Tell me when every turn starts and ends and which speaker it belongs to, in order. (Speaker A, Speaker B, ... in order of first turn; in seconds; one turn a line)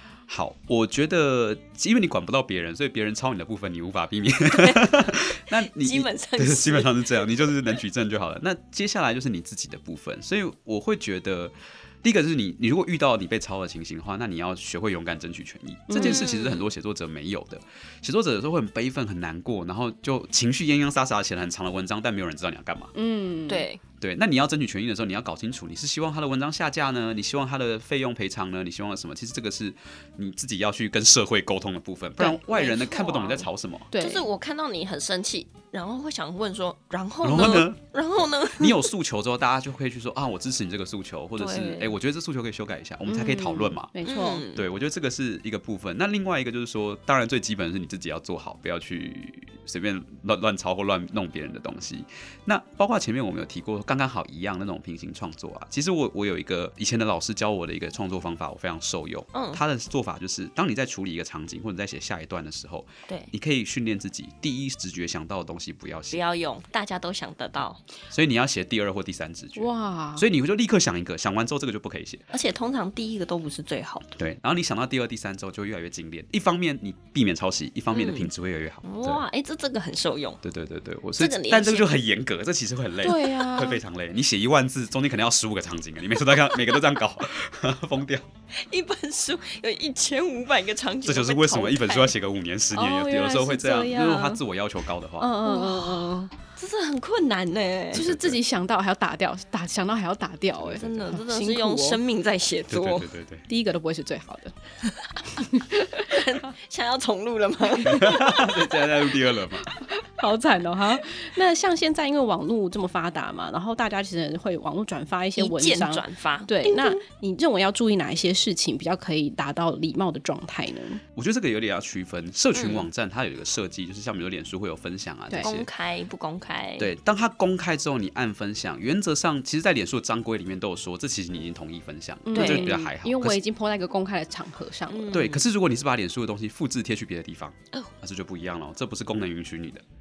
Speaker A: 0.3-22.9
Speaker B: 4.5-7.6
Speaker C: 15.9-16.3
Speaker B: 16.0-16.7
Speaker C: 22.9-23.7
Speaker B: 23.5-23.8
Speaker A: 24.0-33.9
Speaker B: 32.4-38.9
Speaker C: 33.9-34.3
Speaker A: 37.2-37.8
Speaker A: 38.5-43.9
Speaker B: 41.4-42.0
Speaker C: 43.1-44.4
Speaker B: 44.0-44.6
Speaker A: 44.5-66.2
Speaker B: 59.3-59.6
Speaker B: 66.1-67.8
Speaker A: 68.1-72.2
Speaker C: 69.6-70.3
Speaker B: 72.3-74.1
Speaker A: 74.2-79.2
Speaker B: 77.9-78.3
Speaker B: 78.8-80.4
Speaker A: 80.4-88.3
Speaker B: 81.2-81.9
Speaker C: 83.0-83.8
Speaker B: 86.2-86.9
Speaker B: 88.5-92.1
Speaker A: 91.0-95.4
Speaker C: 92.7-94.4
Speaker C: 95.2-96.3
Speaker B: 95.4-98.0
Speaker A: 97.9-98.4
Speaker C: 97.9-102.0
Speaker A: 100.7-101.1
Speaker B: 100.7-103.1
Speaker A: 102.7-103.4
Speaker C: 103.5-104.5
Speaker C: 105.3-106.4
Speaker B: 106.0-108.4
Speaker A: 107.8-109.8
Speaker C: 107.8-108.6
Speaker C: 110.0-121.0
Speaker B: 115.4-117.0
Speaker A: 121.2-125.7
Speaker B: 122.5-122.9
Speaker B: 125.4-126.9
Speaker A: 126.8-133.4
Speaker C: 132.3-135.2
Speaker B: 132.3-132.8
Speaker B: 134.9-135.4
Speaker A: 135.1-139.8